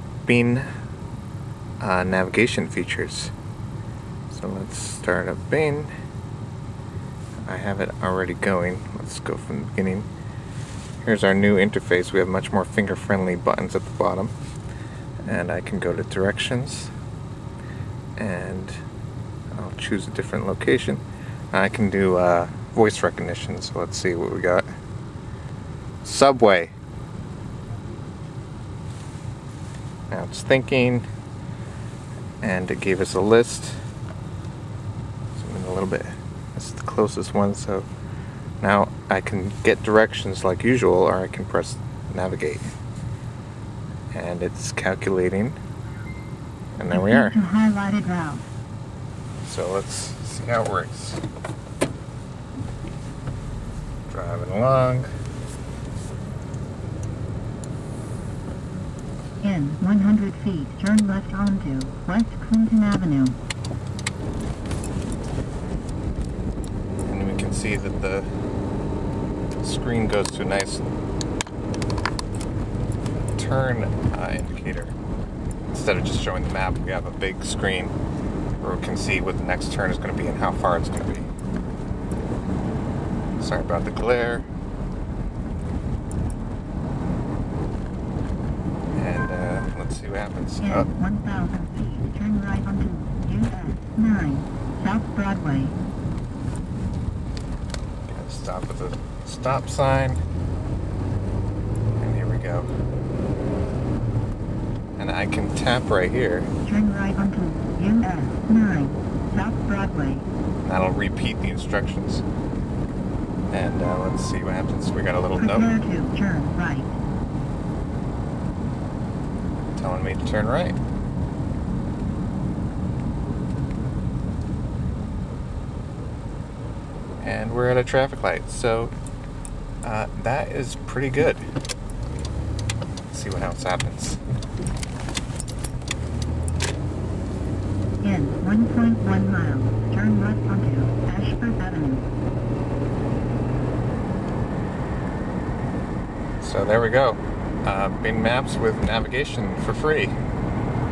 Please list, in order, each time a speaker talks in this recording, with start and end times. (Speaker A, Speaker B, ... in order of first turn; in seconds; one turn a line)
Speaker A: 0.2-0.7
Speaker A: 1.8-3.3
Speaker A: 4.3-5.9
Speaker A: 7.5-10.1
Speaker A: 11.0-14.3
Speaker A: 15.2-16.9
Speaker A: 18.2-18.8
Speaker A: 19.6-21.0
Speaker A: 21.5-24.7
Speaker A: 26.0-26.7
Speaker A: 30.1-31.1
Speaker A: 32.4-33.8
Speaker A: 35.4-37.9
Speaker A: 38.6-42.6
Speaker A: 44.1-45.6
Speaker A: 46.8-47.4
Speaker B: 46.9-48.4
Speaker A: 49.4-51.2
Speaker A: 54.1-55.1
Speaker B: 59.4-63.4
Speaker A: 67.0-68.3
Speaker A: 69.6-70.8
Speaker A: 73.4-74.9
Speaker A: 75.7-77.9
Speaker A: 78.6-81.3
Speaker A: 83.4-84.5
Speaker A: 88.9-90.9
Speaker B: 90.6-95.8
Speaker A: 98.1-100.2
Speaker A: 102.0-102.7
Speaker A: 105.0-106.5
Speaker B: 106.6-110.2
Speaker A: 110.6-112.2
Speaker A: 113.5-115.7
Speaker B: 115.4-116.9
Speaker A: 119.8-120.8
Speaker A: 127.2-128.9
Speaker A: 129.8-131.4
Speaker A: 133.1-134.2
Speaker B: 138.0-142.1
Speaker A: 146.4-150.1